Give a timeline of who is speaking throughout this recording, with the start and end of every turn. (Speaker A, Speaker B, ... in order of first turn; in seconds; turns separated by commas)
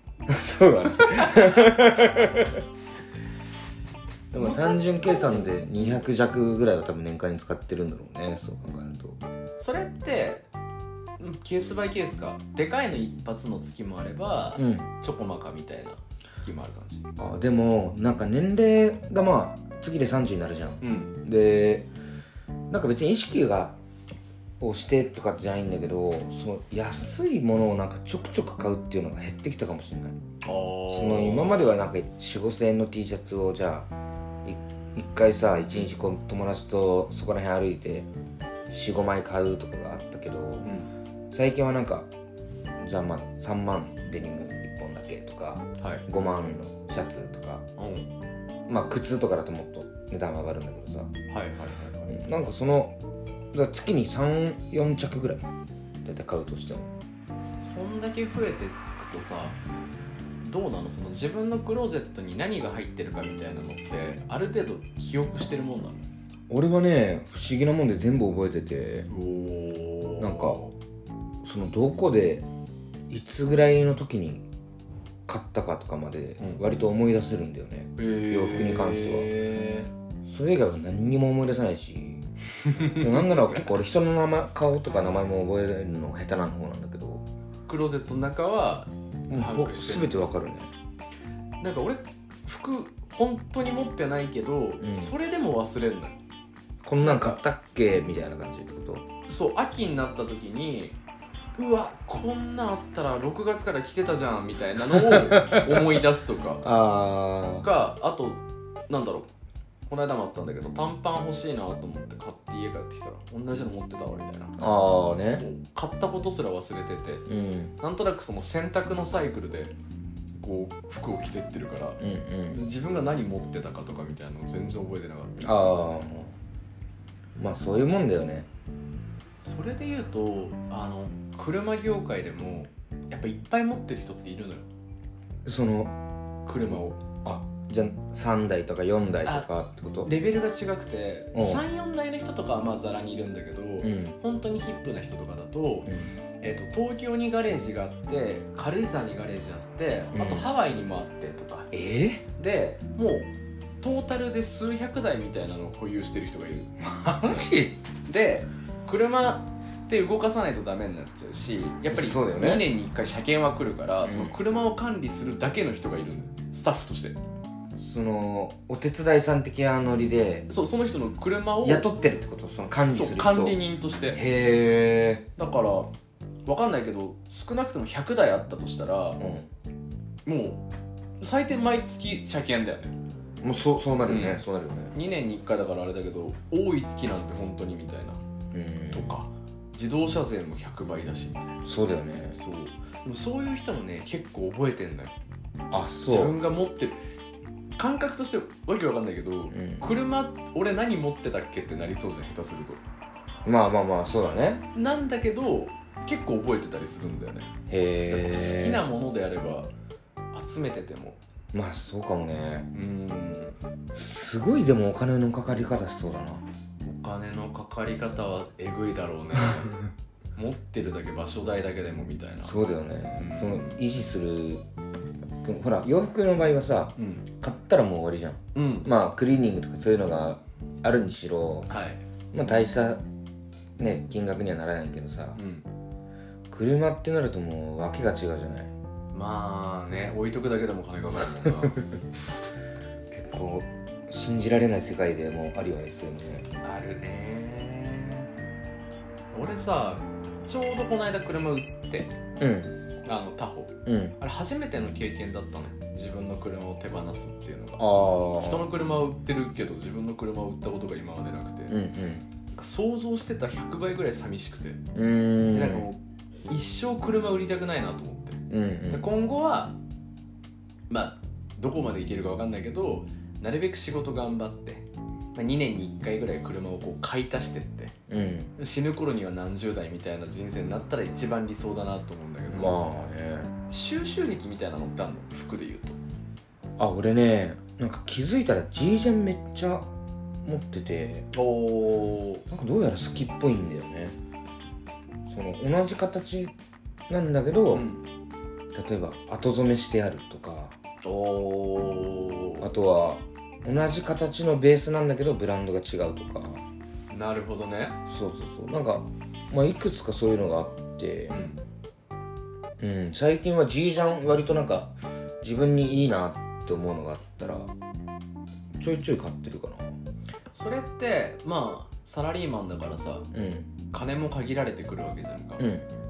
Speaker A: 0.3-2.6, Speaker A: 4.3-9.2, Speaker B: 4.4-6.0, Speaker B: 9.6-10.5, Speaker B: 11.2-17.1, Speaker A: 14.6-14.9, Speaker A: 17.2-21.9, Speaker B: 20.8-21.2, Speaker A: 22.7-23.8, Speaker A: 24.6-30.2, Speaker B: 30.4-31.7, Speaker A: 30.9-33.9, Speaker A: 34.5-38.1, Speaker A: 38.7-40.7, Speaker B: 40.6-40.9, Speaker A: 41.3-42.1, Speaker A: 42.8-47.6, Speaker B: 45.8-46.0, Speaker B: 47.8-48.1, Speaker A: 48.7-51.1, Speaker B: 51.3-52.1, Speaker A: 52.1-53.0, Speaker A: 53.5-55.5, Speaker A: 56.0-56.9, Speaker B: 57.6-59.6, Speaker B: 60.4-66.1, Speaker A: 66.5-69.1, Speaker B: 69.1-70.8, Speaker A: 70.2-70.6, Speaker A: 71.4-72.5, Speaker A: 73.1-74.4, Speaker A: 75.3-79.3, Speaker B: 78.0-79.9, Speaker A: 80.3-82.3, Speaker B: 82.8-83.6, Speaker A: 83.0-87.2, Speaker B: 87.7-90.2, Speaker A: 89.3-90.7, Speaker B: 91.6-96.2, Speaker A: 94.8-95.1, Speaker A: 96.8-99.1, Speaker B: 97.0-97.4, Speaker B: 99.3-101.0, Speaker B: 101.5-106.7, Speaker A: 105.0-106.0, Speaker A: 106.6-107.7, Speaker B: 107.6-109.3, Speaker B: 109.9-114.6, Speaker A: 114.6-115.5, Speaker B: 115.3-117.2, Speaker A: 117.3-117.8, Speaker B: 117.8-119.7, Speaker B: 120.4-125.9, Speaker A: 122.0-122.6, Speaker A: 125.4-126.3, Speaker A: 127.4-128.5, Speaker B: 129.4-134.7, Speaker A: 135.4-135.9, Speaker B: 136.5-137.0, Speaker A: 137.2-140.1, Speaker B: 140.1-151.7, Speaker A: 141.3-141.6, Speaker A: 143.8-144.2, Speaker A: 145.9-146.1, Speaker A: 150.1-150.5, Speaker A: 151.7-152.2, Speaker B: 152.4-153.3, Speaker B: 153.8-156.7, Speaker A: 156.8-157.8, Speaker B: 158.1-167.2, Speaker A: 161.9-162.7, Speaker A: 164.0-164.4, Speaker A: 167.8-170.5, Speaker B: 170.5-171.9, Speaker A: 171.6-173.6, Speaker B: 172.9-174.2, Speaker A: 174.1-175.3, Speaker B: 175.4-175.9, Speaker B: 176.5-179.2, Speaker A: 179.2-179.5, Speaker B: 180.3-180.7, Speaker B: 181.2-182.9, Speaker A: 183.4-184.9, Speaker B: 184.0-184.4, Speaker B: 184.9-188.2, Speaker A: 188.5-189.2, Speaker B: 188.9-191.6, Speaker A: 191.7-192.4, Speaker B: 192.3-195.2, Speaker A: 195.7-196.4, Speaker B: 196.0-197.0, Speaker B: 197.8-202.8, Speaker A: 199.5-199.9, Speaker A: 203.4-204.6, Speaker B: 204.7-207.5, Speaker A: 207.7-208.8, Speaker B: 208.1-209.7, Speaker B: 210.3-211.2, Speaker A: 211.5-212.7, Speaker B: 212.7-213.6, Speaker A: 213.9-216.4, Speaker B: 216.8-219.8, Speaker B: 220.4-222.7, Speaker A: 222.4-224.6, Speaker B: 223.2-223.8, Speaker A: 225.4-231.8, Speaker B: 227.0-227.3, Speaker B: 228.6-228.9, Speaker B: 231.7-232.0, Speaker A: 232.3-233.0, Speaker A: 233.8-235.4, Speaker B: 235.3-235.7, Speaker A: 236.5-238.7, Speaker B: 239.1-241.8, Speaker A: 243.1-246.5, Speaker B: 246.6-248.3, Speaker B: 249.3-252.2, Speaker A: 252.4-252.8, Speaker B: 253.1-261.8, Speaker A: 253.9-254.2, Speaker A: 257.8-258.7, Speaker A: 261.7-262.3, Speaker B: 262.6-264.8, Speaker A: 264.9-265.9, Speaker B: 265.5-269.8, Speaker A: 268.5-269.1, Speaker B: 270.9-277.9, Speaker A: 278.1-278.5, Speaker B: 278.6-282.8, Speaker A: 282.5-283.5, Speaker B: 283.7-286.0, Speaker A: 286.8-289.9, Speaker A: 290.4-291.3, Speaker B: 291.3-292.4, Speaker A: 292.5-294.2, Speaker A: 295.3-296.5, Speaker A: 297.1-297.9, Speaker B: 297.7-298.0, Speaker A: 298.7-300.8, Speaker B: 301.0-302.7, Speaker A: 302.6-306.6, Speaker B: 307.1-308.0, Speaker A: 308.1-311.4, Speaker B: 311.3-311.6, Speaker A: 312.8-317.7, Speaker A: 318.8-320.0, Speaker B: 320.5-323.3, Speaker A: 323.3-323.7, Speaker B: 323.9-325.7, Speaker A: 325.6-325.9